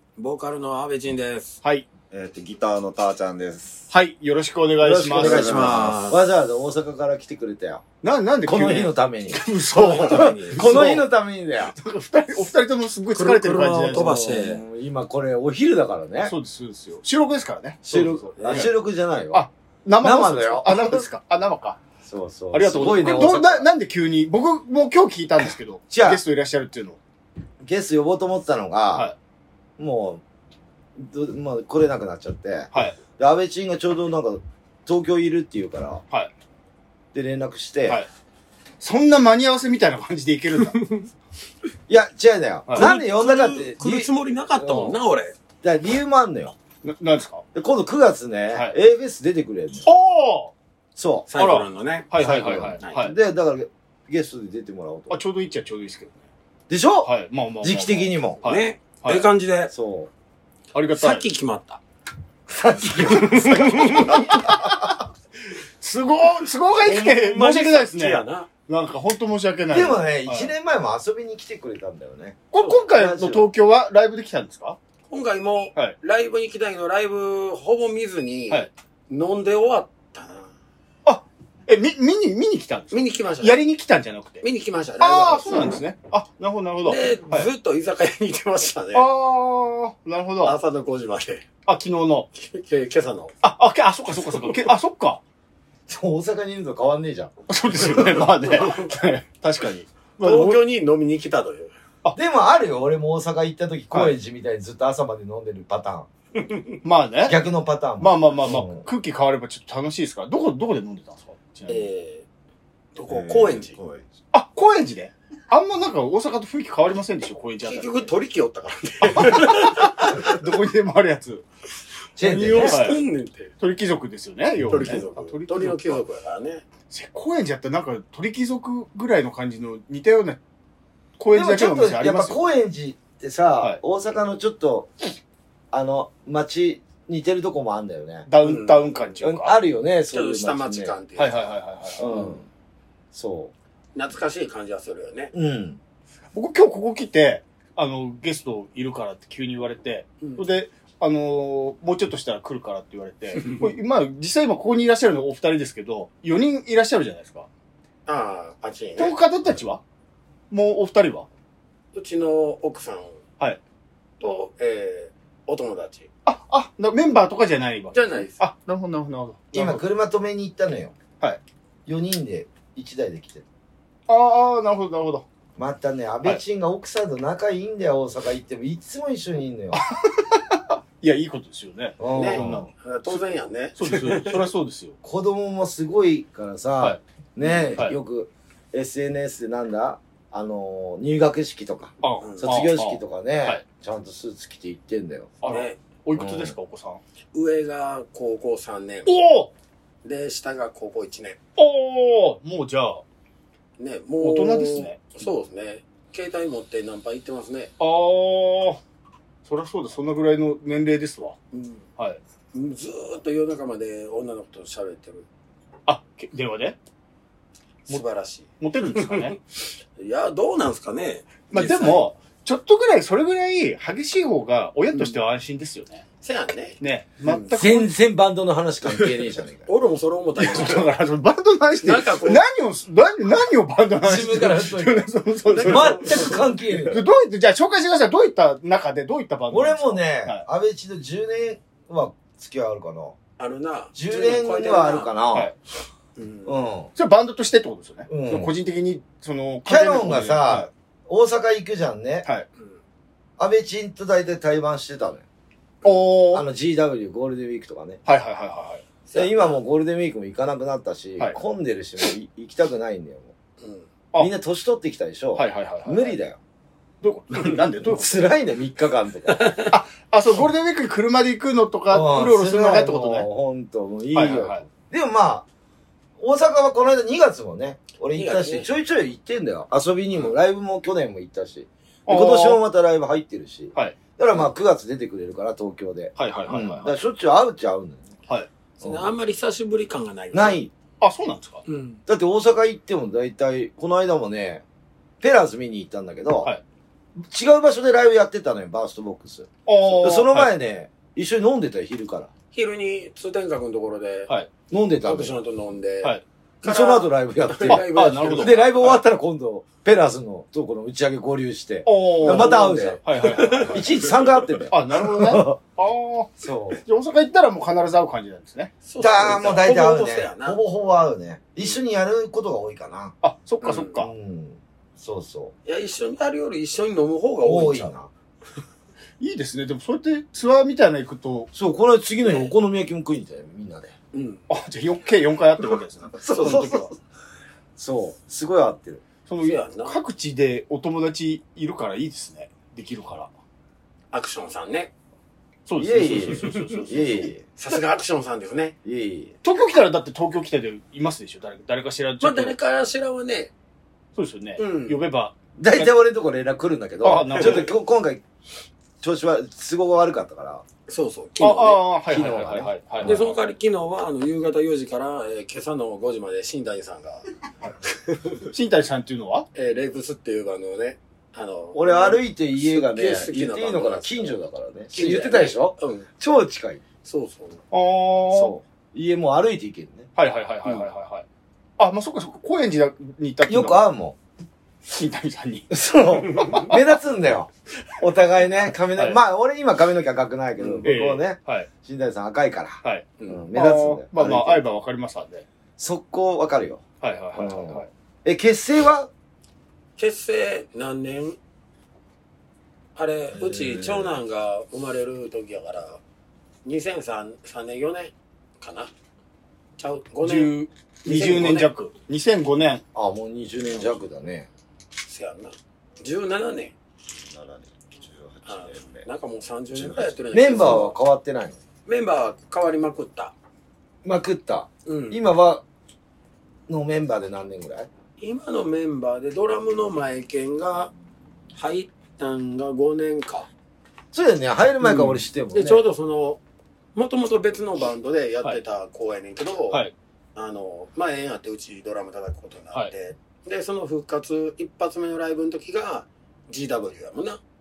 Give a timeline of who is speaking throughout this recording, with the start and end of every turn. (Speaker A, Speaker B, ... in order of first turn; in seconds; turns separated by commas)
Speaker A: 0.2-1.6, Speaker B: 2.1-3.9, Speaker C: 3.9-5.6, Speaker D: 4.8-7.8, Speaker A: 5.2-6.2, Speaker B: 5.3-6.0, Speaker C: 8.0-11.1, Speaker D: 8.4-11.7, Speaker C: 11.7-14.2, Speaker A: 13.1-14.6, Speaker D: 14.0-16.3, Speaker C: 16.2-18.7, Speaker D: 17.8-19.5, Speaker A: 18.4-18.7, Speaker C: 19.3-21.8, Speaker D: 20.0-21.0, Speaker D: 22.0-23.7, Speaker C: 22.5-27.0, Speaker D: 25.9-26.2, Speaker D: 27.6-29.1, Speaker D: 29.8-30.2, Speaker D: 31.0-36.0, Speaker C: 32.7-33.0, Speaker D: 37.1-38.0, Speaker C: 38.8-40.8, Speaker A: 40.7-41.0, Speaker D: 41.9-45.0, Speaker A: 42.7-45.3, Speaker D: 45.6-46.5, Speaker C: 46.8-47.4, Speaker D: 47.5-49.9, Speaker C: 49.8-50.5, Speaker D: 51.0-51.3, Speaker A: 51.3-53.0, Speaker C: 51.4-53.1, Speaker D: 52.2-55.2, Speaker C: 55.1-56.2, Speaker D: 56.7-58.4, Speaker C: 57.0-59.3, Speaker A: 58.4-59.7, Speaker D: 59.7-60.1, Speaker C: 60.7-61.2, Speaker A: 60.9-61.8, Speaker D: 62.5-64.8, Speaker A: 63.0-64.1, Speaker C: 63.4-65.0, Speaker C: 65.8-70.5, Speaker A: 66.8-68.5, Speaker D: 69.7-73.5, Speaker C: 72.5-74.8, Speaker A: 72.6-72.8, Speaker A: 75.1-80.5, Speaker C: 81.0-84.4, Speaker A: 82.9-83.6, Speaker A: 84.4-85.8, Speaker C: 85.0-87.5, Speaker A: 86.8-89.1, Speaker C: 88.9-90.5, Speaker A: 90.4-91.5, Speaker C: 91.7-92.3, Speaker A: 92.3-93.3, Speaker C: 93.4-95.2, Speaker A: 94.2-94.6, Speaker D: 95.9-97.9, Speaker C: 97.5-100.6, Speaker A: 98.5-98.9, Speaker A: 100.2-101.7, Speaker D: 102.1-106.1, Speaker C: 106.8-107.4, Speaker D: 107.2-108.9, Speaker C: 108.0-111.9, Speaker A: 111.7-112.2, Speaker A: 112.9-113.8, Speaker B: 113.1-114.1, Speaker C: 114.3-118.1, Speaker A: 117.6-120.3, Speaker C: 119.0-121.4, Speaker D: 122.2-123.0, Speaker A: 122.2-123.5, Speaker C: 122.2-123.0, Speaker C: 123.6-126.0, Speaker A: 124.6-126.6, Speaker C: 126.9-130.4, Speaker C: 131.2-132.4, Speaker D: 131.3-134.9, Speaker D: 135.7-138.3, Speaker C: 138.3-139.6, Speaker A: 138.4-139.0, Speaker D: 139.2-140.9, Speaker A: 140.1-141.5, Speaker C: 141.2-142.1, Speaker D: 142.0-142.4, Speaker A: 142.0-142.4, Speaker D: 143.1-143.5, Speaker A: 143.9-145.3, Speaker D: 145.3-145.8, Speaker C: 146.3-157.5, Speaker A: 158.1-159.2, Speaker C: 159.0-159.8, Speaker C: 160.5-161.3, Speaker A: 161.9-163.1, Speaker A: 164.2-166.1, Speaker C: 166.2-169.8, Speaker A: 167.9-168.4, Speaker D: 169.5-170.9, Speaker D: 171.8-173.4, Speaker C: 174.1-175.2, Speaker D: 175.6-179.8, Speaker C: 179.7-183.2, Speaker D: 182.0-182.6, Speaker A: 182.1-184.5, Speaker C: 183.8-184.9, Speaker D: 185.0-195.3, Speaker C: 192.0-193.6, Speaker A: 192.2-192.5, Speaker C: 195.4-197.0, Speaker A: 195.4-195.8, Speaker D: 196.1-196.5, Speaker A: 197.3-199.1, Speaker C: 199.1-199.5, Speaker A: 200.0-201.4, Speaker C: 201.6-203.0, Speaker A: 203.8-207.7, Speaker C: 204.2-205.0, Speaker C: 207.8-208.8, Speaker C: 209.4-211.4, Speaker A: 211.5-211.8, Speaker A: 212.5-215.2, Speaker C: 215.9-216.8, Speaker A: 217.9-219.4, Speaker C: 218.6-219.4, Speaker A: 220.0-222.0, Speaker C: 221.5-226.0, Speaker A: 224.9-225.2, Speaker A: 226.2-227.5, Speaker C: 226.8-227.9, Speaker D: 227.5-229.7, Speaker A: 229.7-230.9, Speaker C: 230.4-240.4, Speaker A: 231.8-232.4, Speaker D: 234.0-235.1, Speaker A: 235.4-236.5, Speaker D: 235.6-237.0, Speaker D: 239.5-243.2, Speaker A: 243.4-245.1, Speaker D: 243.9-245.5, Speaker A: 246.2-246.6, Speaker D: 246.4-246.9, Speaker C: 246.9-250.7, Speaker D: 248.1-248.5, Speaker D: 249.7-252.2, Speaker D: 253.4-255.2, Speaker C: 255.8-256.4, Speaker D: 256.3-258.0, Speaker C: 258.1-258.8, Speaker A: 259.1-259.6, Speaker D: 259.1-263.3, Speaker A: 263.6-263.9, Speaker D: 264.1-266.4, Speaker C: 265.4-266.1, Speaker C: 267.0-268.2, Speaker D: 267.8-269.6, Speaker A: 269.3-269.7, Speaker C: 269.7-273.3, Speaker D: 271.9-275.4, Speaker C: 274.1-274.6, Speaker D: 276.2-288.1, Speaker A: 278.1-278.7, Speaker C: 282.1-282.6, Speaker C: 286.2-286.9, Speaker D: 288.8-289.1, Speaker A: 288.8-290.6, Speaker D: 290.3-290.7, Speaker C: 291.0-291.6, Speaker A: 291.7-292.0, Speaker D: 292.1-294.6, Speaker D: 295.2-296.5, Speaker D: 297.2-302.3, Speaker C: 299.6-300.5, Speaker A: 302.5-304.3, Speaker D: 304.7-305.4, Speaker A: 305.0-309.0, Speaker D: 306.6-315.6, Speaker C: 307.7-308.6, Speaker C: 311.8-313.9, Speaker A: 312.2-314.4, Speaker C: 314.7-316.3, Speaker D: 316.4-316.8, Speaker C: 316.8-318.7, Speaker A: 318.8-320.6, Speaker D: 319.0-323.1, Speaker C: 323.2-324.1, Speaker A: 323.6-323.9, Speaker D: 324.0-325.5, Speaker A: 325.6-327.9, Speaker D: 327.4-328.1, Speaker C: 329.2-331.5, Speaker D: 331.5-333.9, Speaker A: 334.1-334.4, Speaker C: 334.5-336.9, Speaker D: 336.1-336.9, Speaker D: 337.8-339.0, Speaker C: 339.3-343.3, Speaker A: 339.4-340.0, Speaker A: 344.1-344.9, Speaker C: 345.7-347.3, Speaker D: 345.8-347.4, Speaker A: 346.4-346.8, Speaker A: 347.6-348.7, Speaker D: 348.8-349.3, Speaker C: 349.4-352.5, Speaker A: 352.2-353.5, Speaker C: 354.1-355.9, Speaker A: 354.6-355.0, Speaker D: 355.6-358.2, Speaker C: 357.0-357.7, Speaker A: 357.4-357.6, Speaker D: 359.0-360.6, Speaker A: 360.9-361.8, Speaker C: 361.4-363.3, Speaker D: 362.1-363.3, Speaker A: 363.0-367.2, Speaker A: 367.9-368.4, Speaker C: 368.4-369.5, Speaker A: 369.5-374.4, Speaker D: 371.7-376.8, Speaker A: 374.9-376.1, Speaker A: 377.0-377.6, Speaker C: 377.7-378.6, Speaker D: 378.3-380.1, Speaker C: 380.1-381.2, Speaker C: 381.8-383.9, Speaker D: 383.4-384.2, Speaker C: 384.9-385.7, Speaker D: 385.7-394.6, Speaker C: 386.3-386.8, Speaker A: 390.6-390.9, Speaker C: 390.8-391.7, Speaker C: 392.8-395.4, Speaker A: 393.2-393.4, Speaker D: 395.8-396.8, Speaker C: 397.0-397.9, Speaker D: 397.4-399.1, Speaker A: 400.0-401.4, Speaker A: 402.9-406.0, Speaker A: 406.6-408.9, Speaker A: 409.8-411.7, Speaker C: 410.2-412.8, Speaker D: 412.9-414.5, Speaker A: 415.0-416.7, Speaker B: 417.2-419.1, Speaker A: 418.4-421.0, Speaker B: 419.7-420.1, Speaker D: 420.3-421.6, Speaker A: 421.9-423.3, Speaker D: 424.0-425.6, Speaker A: 424.9-425.2, Speaker D: 426.7-427.9, Speaker A: 428.2-430.9, Speaker A: 431.5-433.5, Speaker D: 434.1-435.8, Speaker A: 434.8-436.4, Speaker A: 436.9-439.8, Speaker A: 440.4-447.4